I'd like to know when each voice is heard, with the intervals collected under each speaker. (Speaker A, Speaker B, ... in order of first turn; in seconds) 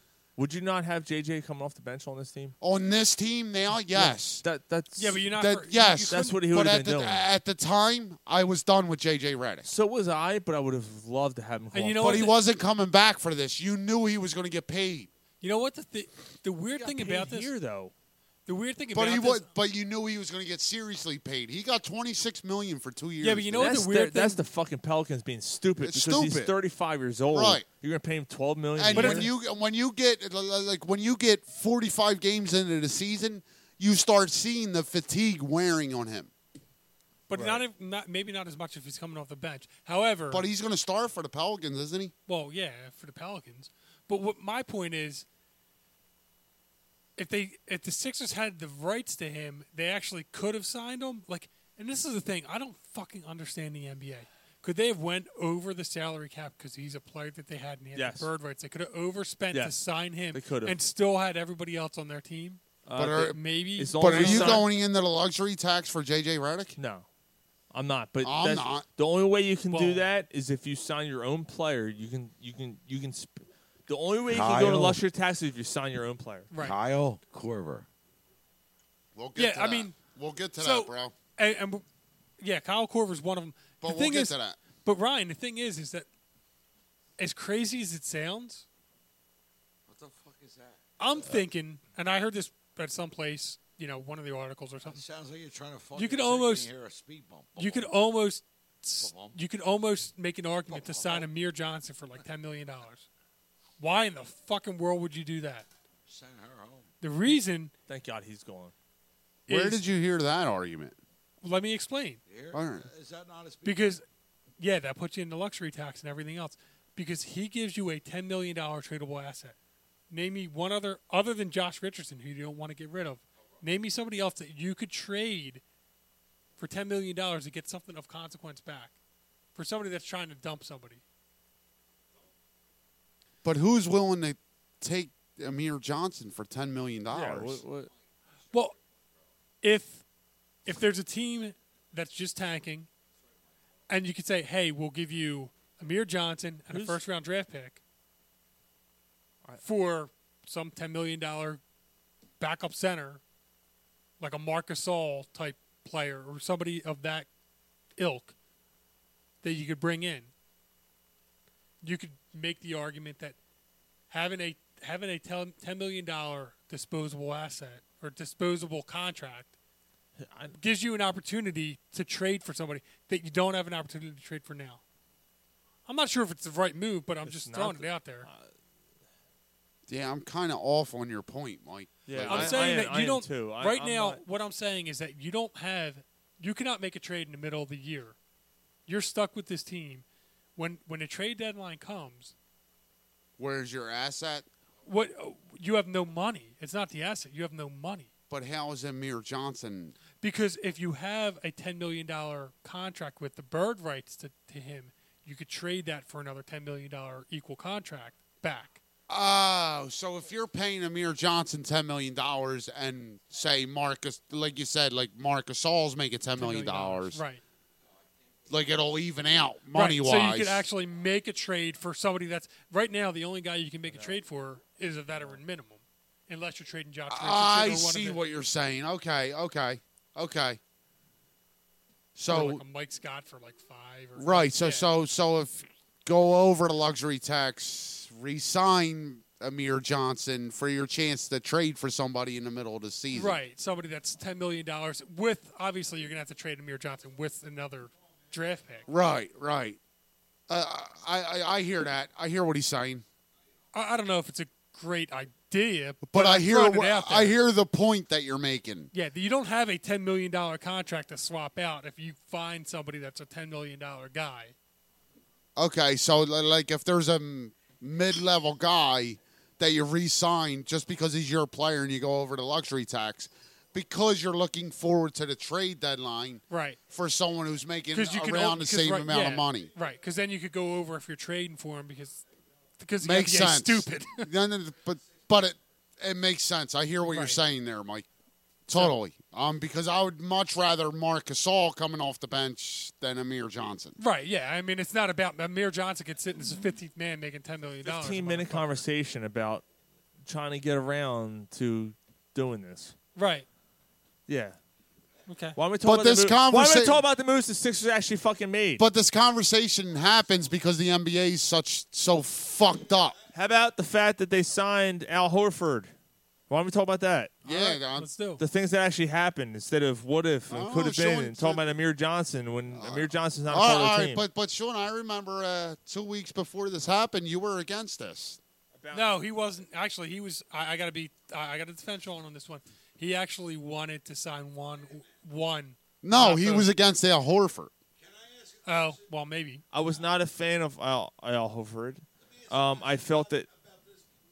Speaker A: 0.4-2.5, 3.8-5.2, 6.1-7.2, 9.6-12.3, 16.7-17.9, 23.6-29.3, 37.3-37.6, 57.9-58.3, 60.3-60.8, 62.9-64.7, 66.8-67.0, 67.7-76.5, 107.9-108.7, 137.1-137.9, 146.7-147.0, 170.2-170.6, 177.2-178.5, 182.1-184.2, 223.9-224.2, 297.8-299.6, 300.2-302.9, 304.3-304.6, 305.6-308.8, 313.3-315.9, 316.5-317.7, 318.4-324.2, 328.7-329.2, 339.7-343.5
Speaker B: 2.6-4.4, 5.4-9.7, 12.0-15.1, 18.9-23.7, 25.8-26.5, 27.3-27.7, 28.8-36.3, 40.3-42.1, 63.0-63.4, 64.0-66.8, 68.2-68.9, 79.1-81.2, 83.8-84.6, 109.5-111.0, 112.5-112.9, 133.4-137.6, 179.9-182.8, 193.4-194.4, 198.3-200.0, 209.1-217.2, 218.5-220.6, 227.1-230.6, 232.2-232.6, 234.2-243.4, 248.9-249.8, 250.5-253.0, 256.0-258.9, 265.6-279.7, 283.0-288.1, 288.7-294.0, 305.8-307.0, 308.8-313.2, 317.4-318.2, 320.5-321.7, 322.7-328.4, 336.0-337.7
Speaker C: 5.0-6.4, 11.7-12.4, 15.4-17.5, 18.4-19.5, 23.2-24.4, 28.9-29.3, 37.3-40.5, 42.3-45.2, 47.2-62.6, 63.2-64.7, 69.7-70.1, 76.5-76.8, 79.3-80.0, 80.6-81.8, 82.4-86.1, 87.2-88.6, 91.0-95.0, 96.0-96.7, 97.5-103.0, 103.8-105.7, 107.0-107.7, 109.5-109.8, 111.4-112.2, 113.6-114.0, 114.6-119.5, 120.1-125.6, 126.6-128.9, 129.5-131.0, 139.6-140.0, 140.7-142.9, 143.9-147.8, 149.6-151.6, 152.4-153.2, 154.2-157.3, 158.0-158.3, 159.4-160.3, 161.8-163.4, 164.1-169.5, 170.6-174.8, 175.8-178.3, 182.2-188.2, 188.8-190.0, 190.6-192.3, 194.8-198.1, 200.1-208.8, 216.3-217.4, 219.7-228.2, 232.3-234.9, 243.1-248.9, 253.7-257.4, 258.9-264.5, 276.5-276.8, 277.9-282.2, 282.8-284.3, 287.1-287.4, 294.0-298.8, 303.1-303.4, 305.3-305.6, 317.6-318.4, 328.9-336.7, 338.6-339.6
Speaker D: 74.3-75.0, 76.6-77.9, 89.9-90.8, 94.9-97.9, 99.0-99.4, 100.7-101.3, 106.1-106.9, 112.2-113.9, 338.0-339.0, 342.3-344.1